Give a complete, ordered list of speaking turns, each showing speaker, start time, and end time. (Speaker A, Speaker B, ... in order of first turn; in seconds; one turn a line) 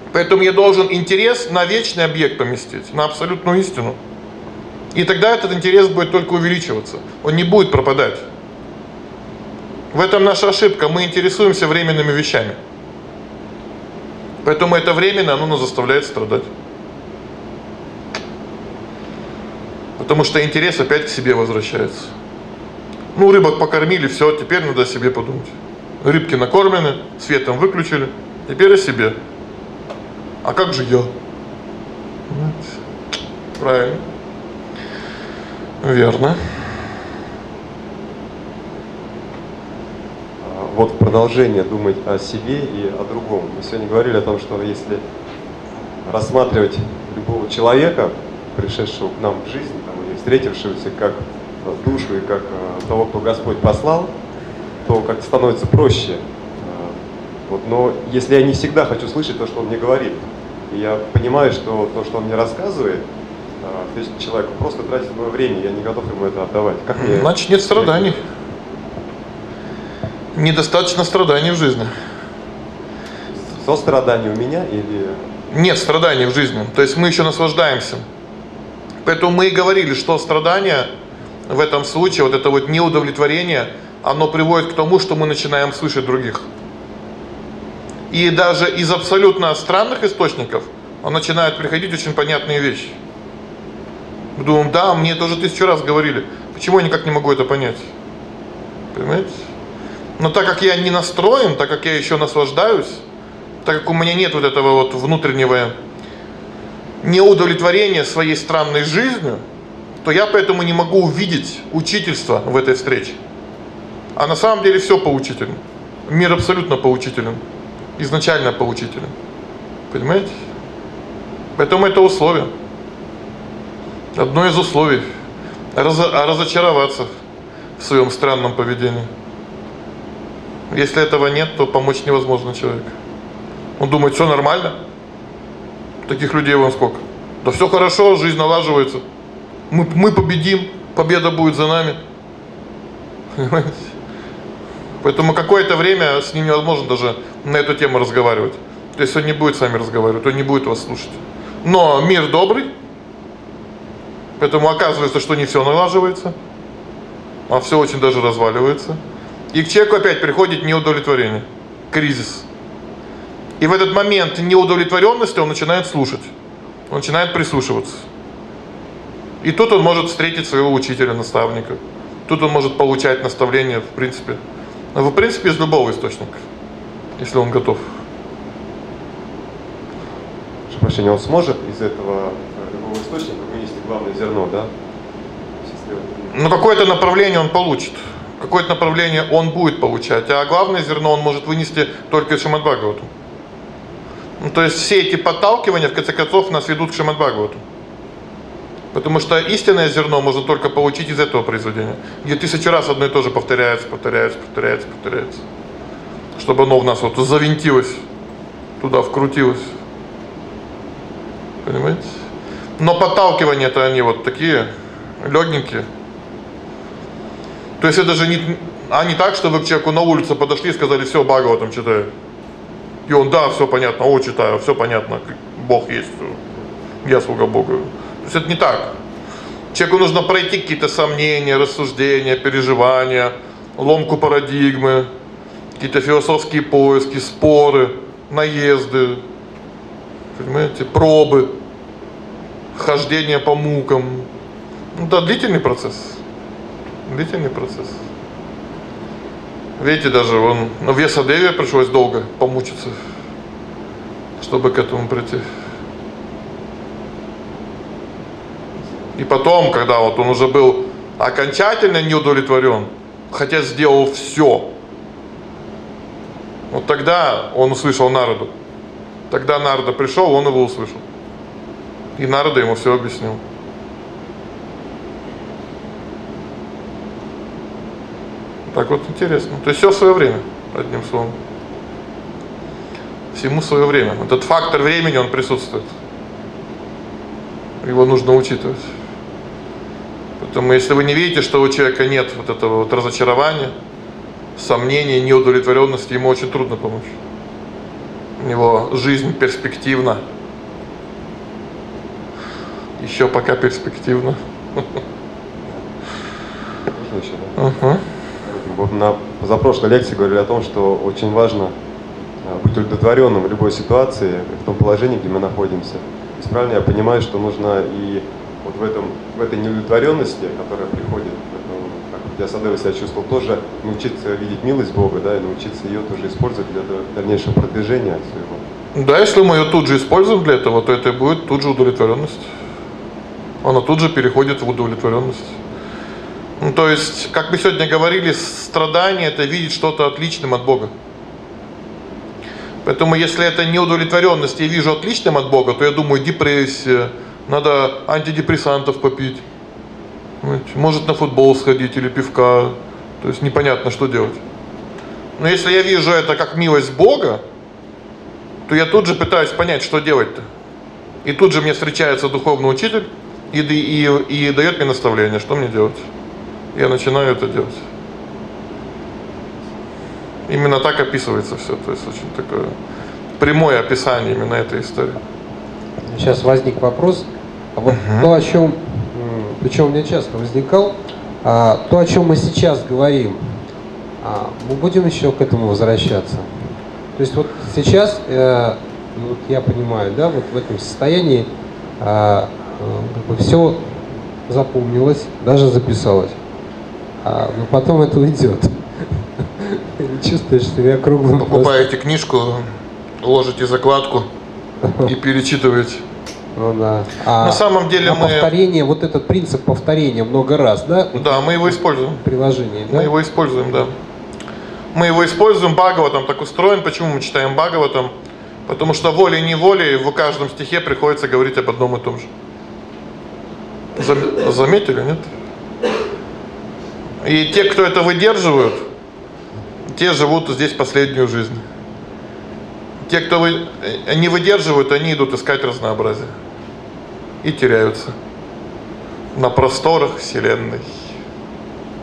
Speaker A: 0.1-4.0
Speaker A: 4.9-8.2
Speaker A: 9.9-12.6
Speaker A: 14.4-16.5
Speaker A: 20.0-22.1
Speaker A: 23.1-29.2
Speaker A: 30.4-31.1
Speaker A: 32.3-32.8
Speaker A: 33.6-34.0
Speaker A: 35.8-36.8
Speaker B: 40.4-45.0
Speaker B: 46.0-54.1
Speaker B: 54.8-57.0
Speaker B: 57.5-63.0
Speaker B: 63.6-68.1
Speaker A: 66.9-68.2
Speaker A: 70.3-71.9
Speaker B: 73.4-75.2
Speaker A: 75.5-78.0
Speaker A: 79.0-80.9
Speaker A: 81.5-86.4
Speaker A: 88.1-93.0
Speaker A: 94.3-97.9
Speaker A: 98.9-99.3
Speaker A: 100.2-103.0
Speaker A: 103.6-105.7
Speaker A: 107.0-109.4
Speaker A: 110.0-113.2
Speaker A: 114.2-117.4
Speaker A: 118.0-119.1
Speaker A: 119.9-120.3
Speaker A: 121.5-122.5
Speaker A: 124.1-125.0
Speaker A: 125.7-127.1
Speaker A: 127.8-129.1
Speaker A: 130.7-132.9
Speaker A: 133.8-134.8
Speaker A: 136.1-139.0
Speaker A: 139.7-142.0
Speaker A: 143.3-143.8
Speaker A: 145.0-152.7
Speaker A: 154.4-156.3
Speaker A: 157.5-159.0
Speaker A: 159.5-162.4
Speaker A: 163.6-166.3
Speaker A: 166.9-168.1
Speaker A: 169.4-174.4
Speaker A: 174.9-176.4
Speaker A: 177.2-177.9
Speaker B: 180.7-184.7
Speaker B: 185.6-186.5
Speaker A: 186.3-193.1
Speaker A: 194.4-197.6
Speaker A: 198.9-205.4
Speaker A: 206.3-208.0
Speaker A: 208.8-209.7
Speaker A: 211.6-212.1
Speaker A: 212.8-214.7
Speaker A: 215.2-215.9
Speaker A: 217.8-222.1
Speaker A: 223.1-226.4
Speaker A: 227.0-228.9
Speaker A: 229.7-235.1
Speaker A: 235.8-239.2
Speaker A: 240.3-241.5
Speaker A: 242.7-244.3
Speaker A: 244.9-246.2
Speaker A: 247.1-248.0
Speaker A: 249.8-253.0
Speaker A: 254.4-255.4
Speaker A: 259.1-264.7
Speaker A: 266.7-268.5
Speaker A: 269.3-271.0
Speaker A: 272.2-273.4
Speaker A: 278.7-281.3
Speaker A: 283.3-285.9
Speaker A: 287.8-288.8
Speaker A: 290.4-293.7
Speaker A: 294.6-297.1
Speaker A: 298.4-300.2
Speaker A: 303.0-305.0
Speaker B: 306.9-307.6
Speaker A: 307.6-308.0
Speaker B: 308.4-311.7
Speaker B: 312.4-328.6
Speaker A: 328.9-332.4
Speaker A: 333.6-335.6
Speaker A: 336.6-340.9
Speaker A: 342.8-349.4
Speaker A: 350.4-354.4
Speaker A: 355.4-357.4
Speaker A: 358.7-360.4
Speaker A: 361.2-366.0
Speaker A: 366.7-367.8
Speaker A: 370.5-372.7
Speaker A: 373.4-375.2
Speaker C: 376.0-383.6
Speaker A: 377.9-378.3
Speaker C: 384.2-386.5
Speaker C: 387.1-396.4
Speaker C: 397.2-398.7
Speaker C: 399.4-401.9
Speaker A: 401.4-402.7
Speaker A: 403.2-404.3
Speaker A: 405.0-406.0
Speaker C: 406.6-413.1
Speaker A: 407.4-408.5
Speaker A: 411.1-412.2
Speaker A: 412.9-413.9
Speaker A: 414.9-418.1
Speaker A: 418.7-422.3
Speaker A: 423.9-425.3
Speaker A: 427.2-428.8
Speaker A: 429.9-431.6
Speaker A: 433.1-436.3
Speaker A: 437.4-438.1
Speaker A: 439.3-440.9